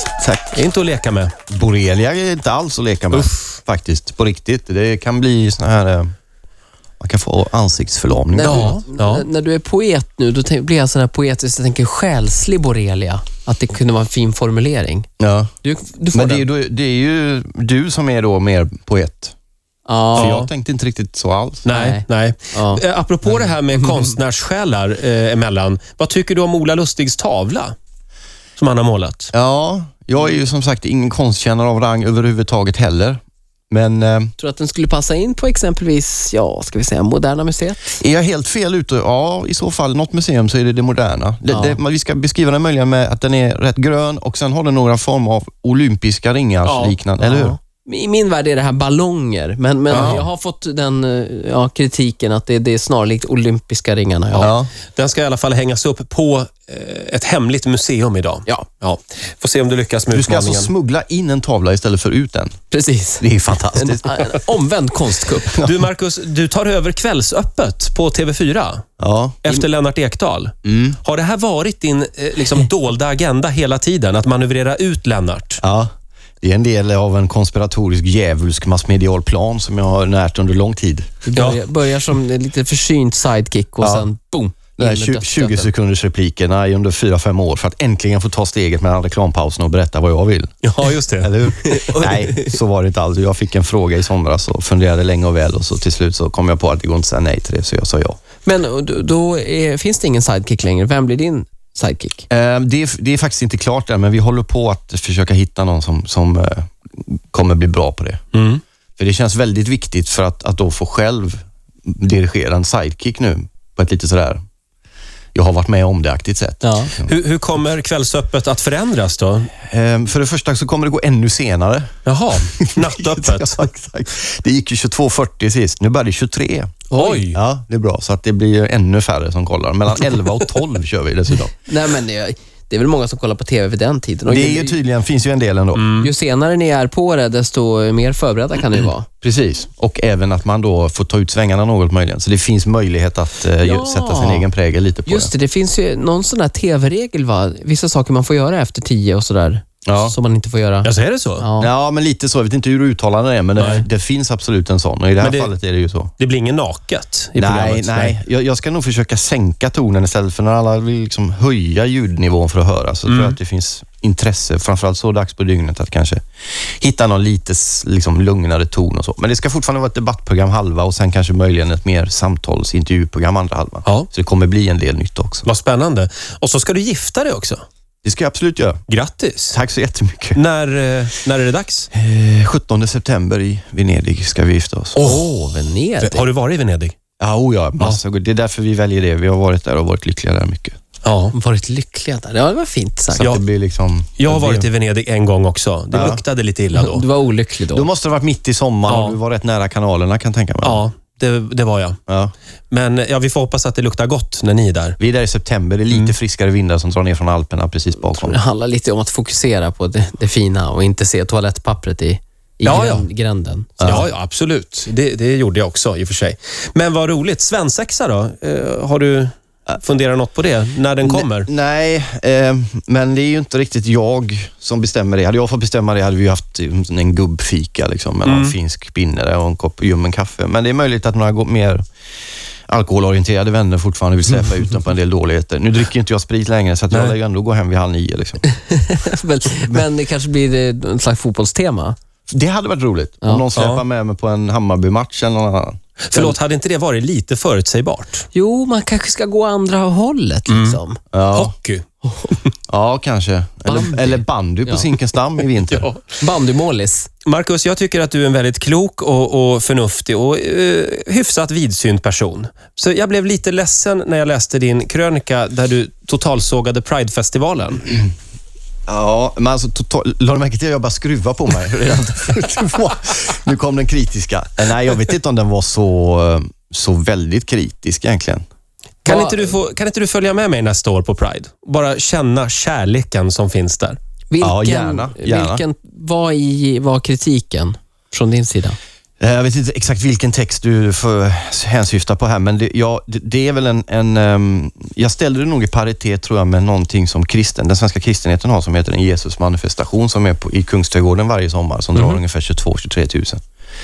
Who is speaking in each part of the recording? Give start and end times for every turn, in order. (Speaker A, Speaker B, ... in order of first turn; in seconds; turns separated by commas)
Speaker A: 0.2-0.6, Speaker B: 0.5-1.3, Speaker A: 1.5-6.1, Speaker A: 7.0-8.8, Speaker C: 8.3-15.1, Speaker B: 8.4-9.2, Speaker A: 15.2-15.5, Speaker C: 15.6-16.4, Speaker A: 16.1-19.3, Speaker C: 19.9-20.4, Speaker B: 20.1-20.5, Speaker A: 20.1-21.7, Speaker B: 21.6-27.8, Speaker C: 21.7-22.8, Speaker C: 23.7-24.2, Speaker B: 28.6-29.3, Speaker A: 29.3-34.3, Speaker C: 34.4-38.0, Speaker A: 38.0-47.5, Speaker C: 41.5-41.8, Speaker B: 46.6-47.0, Speaker C: 47.2-54.5, Speaker B: 49.9-50.2, Speaker A: 49.9-50.2, Speaker A: 54.4-54.7, Speaker B: 54.4-60.7, Speaker A: 60.1-62.5, Speaker C: 62.7-65.6, Speaker A: 63.2-64.3, Speaker A: 65.5-65.8, Speaker B: 65.5-68.8, Speaker A: 69.0-69.6, Speaker B: 69.4-75.6, Speaker A: 70.6-71.0, Speaker A: 75.6-75.9, Speaker A: 76.4-81.2, Speaker C: 81.2-85.7, Speaker B: 81.3-81.6, Speaker A: 83.8-84.0, Speaker A: 84.8-90.7, Speaker B: 90.6-91.3, Speaker A: 91.2-98.2, Speaker C: 91.7-92.5, Speaker C: 98.4-102.3, Speaker A: 102.3-108.2, Speaker B: 108.3-108.6, Speaker A: 109.0-114.4, Speaker A: 115.3-117.1, Speaker C: 116.6-116.9, Speaker B: 117.0-119.5, Speaker A: 119.7-131.6, Speaker B: 122.0-123.7, Speaker B: 126.9-127.4, Speaker C: 131.7-134.8, Speaker A: 134.2-135.9, Speaker B: 135.7-136.1, Speaker C: 136.0-139.1, Speaker A: 139.2-145.3, Speaker C: 143.6-144.5, Speaker C: 145.1-151.7, Speaker A: 149.8-150.1, Speaker B: 150.8-151.5, Speaker A: 151.6-156.1, Speaker B: 153.6-153.8, Speaker B: 155.2-155.5, Speaker B: 156.2-158.2, Speaker A: 157.4-166.2, Speaker B: 163.1-163.4, Speaker A: 166.8-175.4, Speaker B: 175.4-177.6, Speaker A: 178.0-178.8, Speaker B: 178.9-179.6, Speaker A: 179.5-180.4, Speaker B: 180.3-181.9, Speaker A: 181.9-185.2, Speaker C: 184.9-186.2, Speaker B: 186.0-186.9, Speaker A: 187.2-190.8, Speaker B: 191.0-191.3, Speaker C: 191.3-193.3, Speaker A: 193.2-194.7, Speaker B: 194.2-197.0, Speaker A: 195.9-196.2, Speaker C: 196.7-197.9, Speaker A: 197.7-200.8, Speaker B: 198.9-199.2, Speaker B: 200.6-202.0, Speaker A: 202.1-202.3, Speaker B: 202.7-205.0, Speaker A: 205.0-208.4, Speaker C: 208.0-213.8, Speaker B: 212.6-213.1, Speaker A: 213.8-214.1, Speaker B: 213.8-221.5, Speaker A: 221.0-231.8, Speaker B: 228.2-228.6, Speaker A: 232.7-238.4, Speaker C: 238.5-241.9, Speaker A: 242.3-246.4, Speaker B: 243.5-243.8, Speaker B: 246.0-248.3, Speaker C: 248.3-251.0, Speaker B: 250.5-250.8, Speaker A: 251.1-251.5, Speaker B: 251.3-251.8, Speaker A: 252.7-255.9, Speaker C: 253.7-254.9, Speaker B: 255.7-256.0, Speaker C: 256.2-257.1, Speaker B: 257.2-268.0, Speaker A: 268.9-278.4, Speaker B: 279.0-284.0, Speaker C: 279.1-279.6, Speaker C: 284.3-288.8, Speaker A: 284.4-285.6, Speaker A: 289.2-303.4